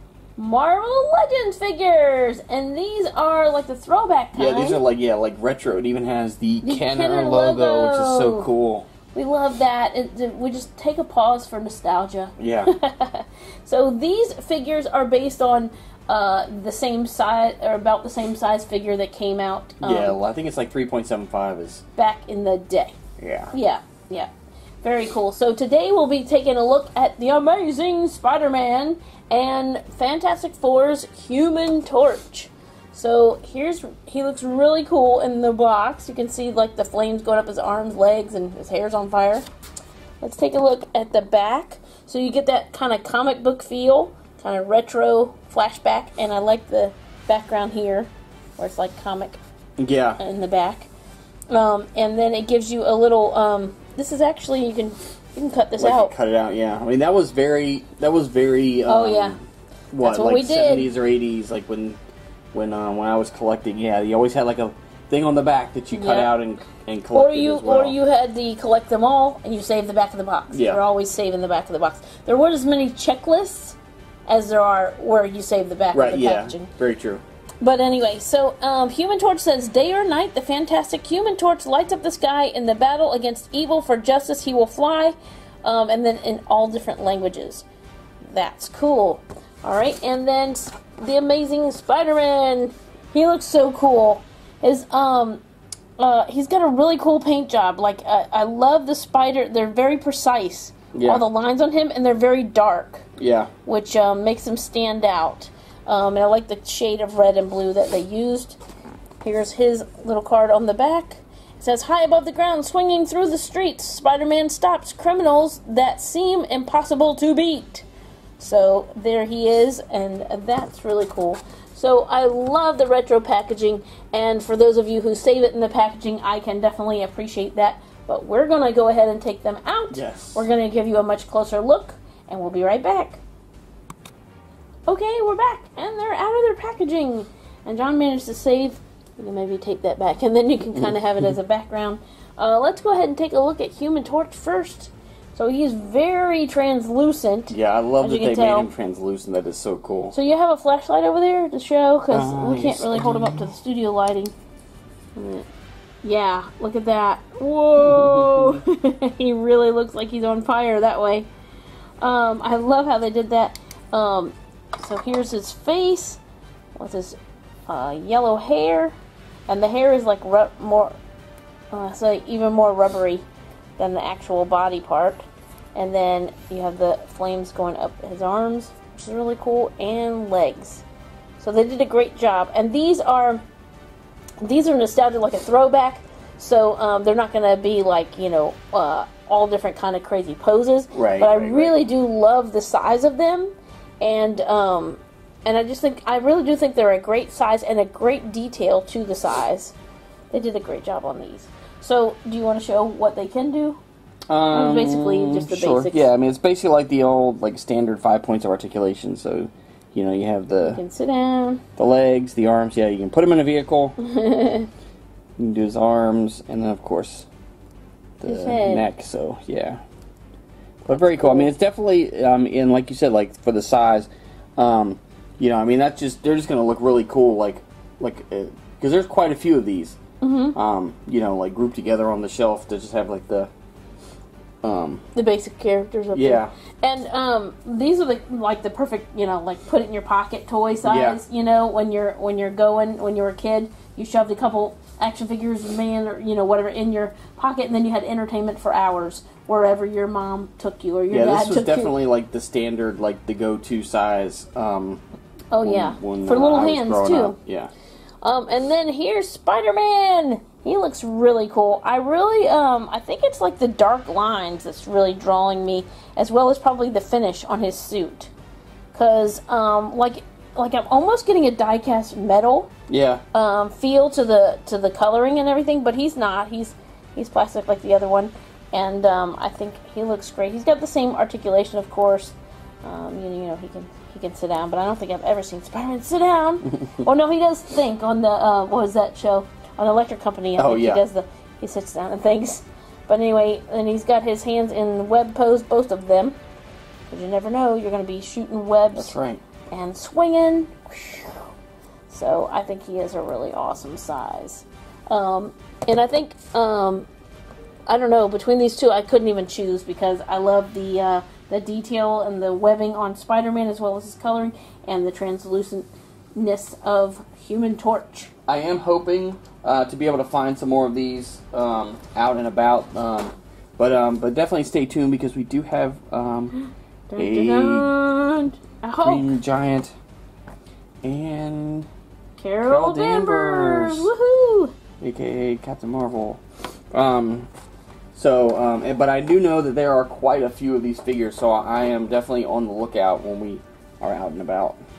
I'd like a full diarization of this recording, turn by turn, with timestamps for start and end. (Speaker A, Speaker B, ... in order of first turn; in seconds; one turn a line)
Speaker A: 0.4-4.8
Speaker B: 4.3-8.9
Speaker A: 6.6-8.5
Speaker A: 9.1-20.2
Speaker B: 12.4-12.7
Speaker B: 19.8-21.8
Speaker A: 22.0-23.0
Speaker B: 23.2-23.5
Speaker A: 23.5-24.3
Speaker A: 24.8-39.5
Speaker A: 40.2-49.4
Speaker B: 49.8-50.2
Speaker A: 50.2-50.9
Speaker A: 51.5-56.1
Speaker B: 55.8-59.4
Speaker A: 58.9-59.4
Speaker B: 59.9-62.0
Speaker A: 60.0-60.9
Speaker B: 62.5-68.0
Speaker A: 65.9-66.3
Speaker A: 67.1-73.8
Speaker B: 70.5-70.8
Speaker A: 74.3-76.7
Speaker B: 75.9-77.2
Speaker A: 77.6-87.7
Speaker A: 88.2-95.4
Speaker A: 96.0-103.1
Speaker B: 100.9-101.2
Speaker B: 103.2-103.5
Speaker A: 103.7-108.6
Speaker A: 109.2-117.9
Speaker A: 118.4-133.2
Speaker B: 129.9-130.4
Speaker A: 134.9-148.7
Speaker B: 147.5-150.2
Speaker A: 150.1-154.3
Speaker B: 152.1-153.6
Speaker A: 155.2-155.5
Speaker A: 156.0-161.3
Speaker B: 157.8-158.6
Speaker A: 162.0-166.2
Speaker A: 166.8-167.2
Speaker A: 167.7-168.9
Speaker A: 169.5-171.0
Speaker A: 171.7-173.2
Speaker A: 173.8-175.2
Speaker A: 175.8-180.8
Speaker A: 181.4-183.4
Speaker A: 184.4-199.8
Speaker B: 190.9-191.8
Speaker A: 200.3-203.8
Speaker B: 204.3-210.8
Speaker A: 204.5-206.1
Speaker A: 210.6-211.6
Speaker B: 211.8-214.0
Speaker A: 214.0-214.7
Speaker B: 215.4-217.3
Speaker B: 218.2-219.8
Speaker A: 218.2-218.9
Speaker A: 220.9-221.5
Speaker B: 220.9-230.0
Speaker A: 230.2-230.6
Speaker B: 230.6-233.5
Speaker B: 234.6-235.1
Speaker A: 235.2-251.9
Speaker B: 236.1-236.5
Speaker B: 240.8-241.2
Speaker B: 251.1-255.0
Speaker A: 255.5-257.4
Speaker B: 255.6-257.7
Speaker A: 258.2-268.3
Speaker A: 268.9-272.7
Speaker B: 272.9-273.2
Speaker A: 273.3-296.4
Speaker B: 290.6-291.0
Speaker A: 297.1-299.1
Speaker B: 298.9-299.4
Speaker A: 299.7-301.5
Speaker A: 302.1-307.1
Speaker A: 307.9-318.3
Speaker B: 318.5-326.6
Speaker A: 326.6-329.3
Speaker B: 327.2-327.9
Speaker B: 329.0-329.9
Speaker B: 331.0-331.9
Speaker A: 332.4-334.7
Speaker B: 332.6-334.1
Speaker B: 335.0-336.4
Speaker B: 336.9-337.5
Speaker B: 338.1-344.8